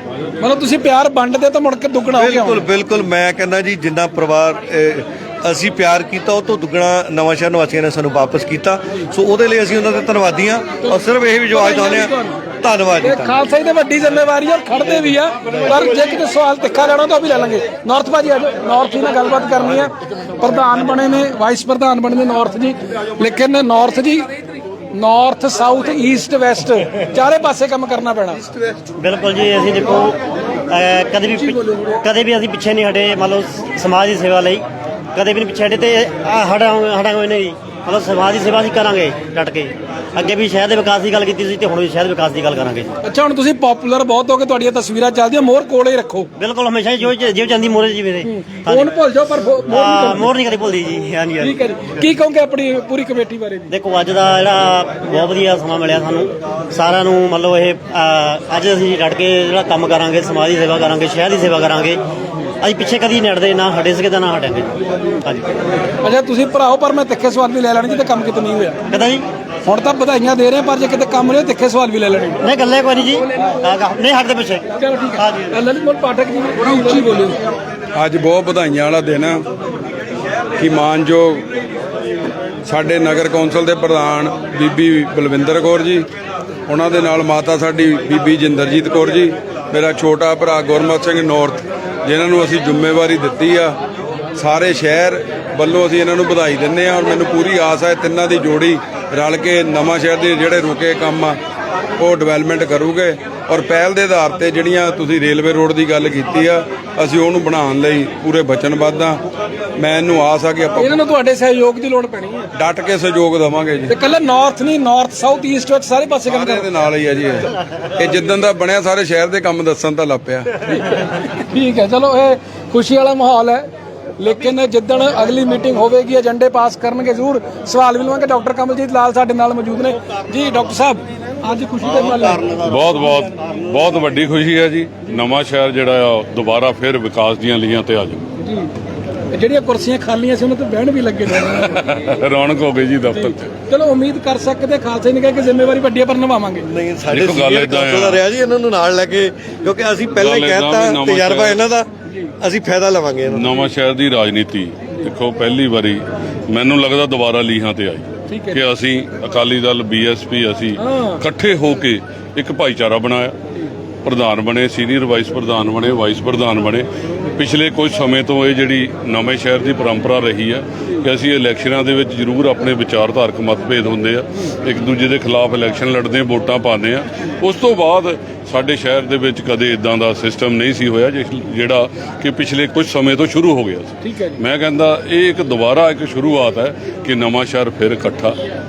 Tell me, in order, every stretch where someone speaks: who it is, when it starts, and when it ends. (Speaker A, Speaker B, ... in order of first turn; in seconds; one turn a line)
Speaker A: 0.4-2.6
Speaker B: 2.1-13.4
Speaker A: 10.8-12.4
Speaker A: 13.0-28.5
Speaker C: 29.0-30.2
Speaker C: 30.7-34.6
Speaker A: 31.4-32.0
Speaker C: 35.1-42.9
Speaker A: 43.0-46.3
Speaker C: 46.4-48.9
Speaker A: 48.2-50.3
Speaker C: 49.6-51.6
Speaker A: 51.4-53.7
Speaker C: 53.7-62.0
Speaker C: 62.6-65.6
Speaker A: 66.0-69.0
Speaker C: 68.9-69.2
Speaker A: 69.7-72.5
Speaker C: 72.4-75.5
Speaker A: 73.1-73.8
Speaker A: 74.8-77.4
Speaker D: 78.0-79.4
Speaker D: 80.6-81.4
Speaker D: 82.7-86.1
Speaker D: 86.7-93.8
Speaker D: 94.4-101.4
Speaker D: 102.0-109.2
Speaker D: 109.8-111.0
Speaker A: 110.8-112.5
Speaker D: 112.6-113.9
Speaker A: 113.9-116.7
Speaker D: 116.3-120.5
Speaker A: 120.7-123.7
Speaker A: 124.2-132.4
Speaker E: 132.7-138.2
Speaker A: 138.4-138.7
Speaker A: 139.3-141.7
Speaker E: 141.4-143.5
Speaker A: 143.1-146.7
Speaker B: 146.6-153.7
Speaker E: 147.1-148.2
Speaker E: 150.1-151.7
Speaker E: 153.3-163.4
Speaker A: 158.3-158.6
Speaker A: 160.8-161.2
Speaker E: 164.1-188.4
Speaker A: 184.0-184.4